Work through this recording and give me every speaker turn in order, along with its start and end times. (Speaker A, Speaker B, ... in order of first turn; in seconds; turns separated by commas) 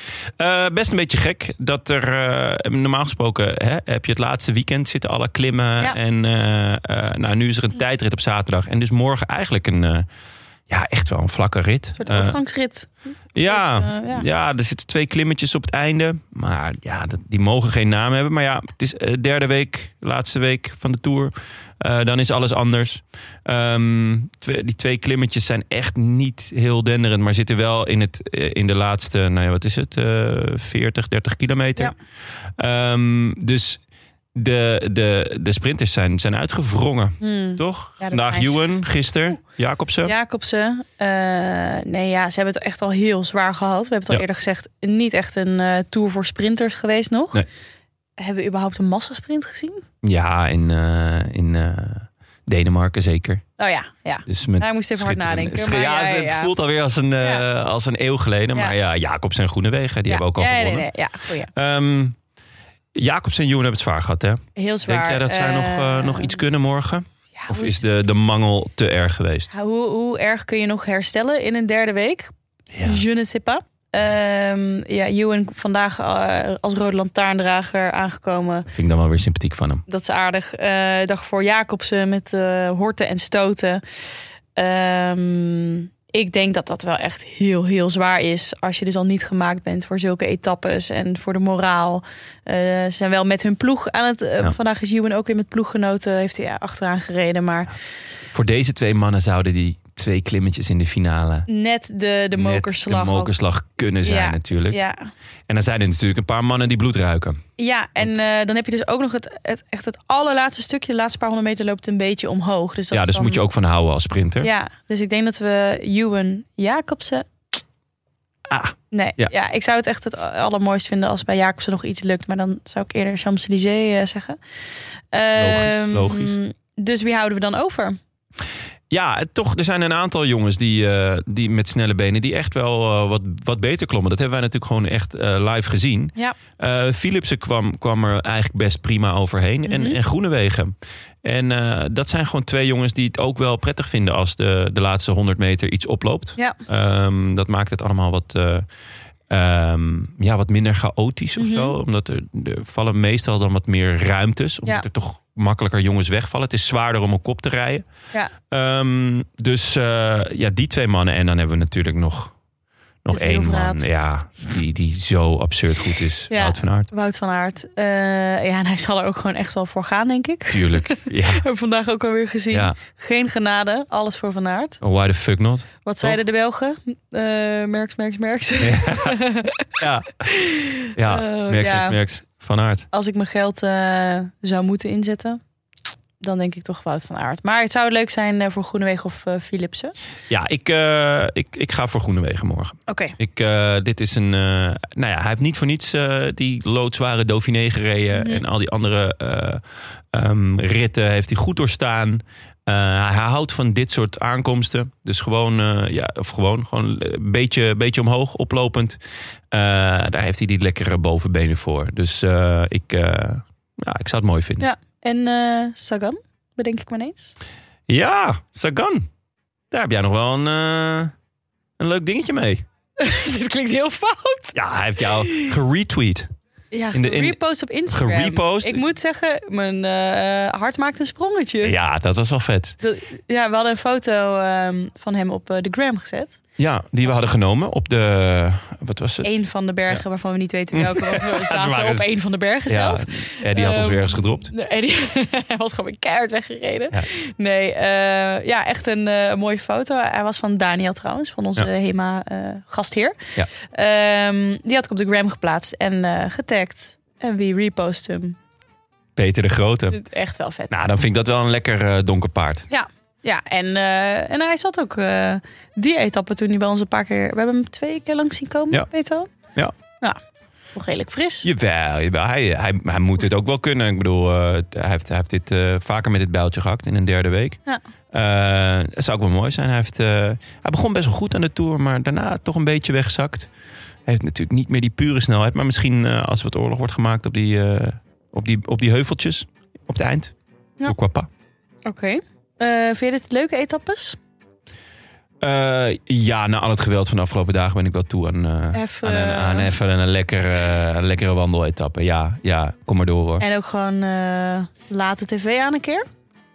Speaker A: 0.4-10.1, Speaker A: 10.7-12.4, Speaker B: 12.0-14.2, Speaker A: 13.3-31.9, Speaker A: 32.6-33.8, Speaker A: 34.3-40.1, Speaker B: 37.2-38.7, Speaker B: 40.0-47.4, Speaker B: 48.2-49.8, Speaker A: 50.0-53.4, Speaker B: 53.6-56.5, Speaker A: 54.3-60.9, Speaker B: 57.2-57.4, Speaker B: 60.0-61.5, Speaker A: 61.5-62.1, Speaker A: 63.0-69.5, Speaker B: 64.5-66.4, Speaker B: 67.3-67.8, Speaker B: 69.5-72.3, Speaker A: 72.7-73.0, Speaker B: 72.8-78.7, Speaker A: 78.7-79.8, Speaker B: 79.9-83.8, Speaker B: 84.5-97.7, Speaker A: 98.3-101.5, Speaker B: 101.5-103.3, Speaker A: 102.3-104.8, Speaker B: 104.0-105.1, Speaker A: 105.5-107.4, Speaker B: 107.6-113.4, Speaker A: 112.9-114.5, Speaker B: 114.4-117.3, Speaker A: 118.5-119.3, Speaker B: 118.9-124.4, Speaker B: 125.1-128.0, Speaker A: 125.3-126.4, Speaker A: 128.9-148.7, Speaker B: 139.6-140.0, Speaker B: 146.3-146.6, Speaker A: 149.3-157.8, Speaker B: 151.3-151.7, Speaker A: 158.5-162.3, Speaker A: 163.0-166.9, Speaker B: 163.1-163.9, Speaker B: 166.3-174.8, Speaker A: 170.5-171.4, Speaker A: 174.8-176.2, Speaker B: 175.8-179.7, Speaker A: 178.6-179.2, Speaker A: 179.8-182.9, Speaker B: 180.2-182.0, Speaker B: 182.9-185.4, Speaker B: 186.2-189.9, Speaker A: 190.3-199.6, Speaker B: 192.9-193.2, Speaker B: 198.1-198.4, Speaker A: 200.1-209.0, Speaker A: 209.5-214.7, Speaker B: 214.6-217.3, Speaker A: 217.9-219.1, Speaker A: 219.7-221.1, Speaker A: 221.8-222.6, Speaker B: 223.0-224.6, Speaker A: 224.5-226.3, Speaker B: 225.2-225.5, Speaker B: 226.7-231.7, Speaker A: 226.9-228.8, Speaker A: 231.6-232.8, Speaker B: 232.8-236.4, Speaker A: 236.6-239.3, Speaker B: 239.2-258.4, Speaker A: 240.7-242.1, Speaker A: 242.7-244.5, Speaker A: 259.1-260.0, Speaker B: 259.9-260.7, Speaker A: 260.7-262.6, Speaker B: 262.7-269.3, Speaker B: 270.7-271.5, Speaker A: 271.4-277.6, Speaker A: 278.1-283.5, Speaker A: 284.1-290.3, Speaker A: 290.8-291.3, Speaker B: 291.8-294.2, Speaker A: 295.4-303.4, Speaker B: 298.7-299.8, Speaker B: 303.4-306.1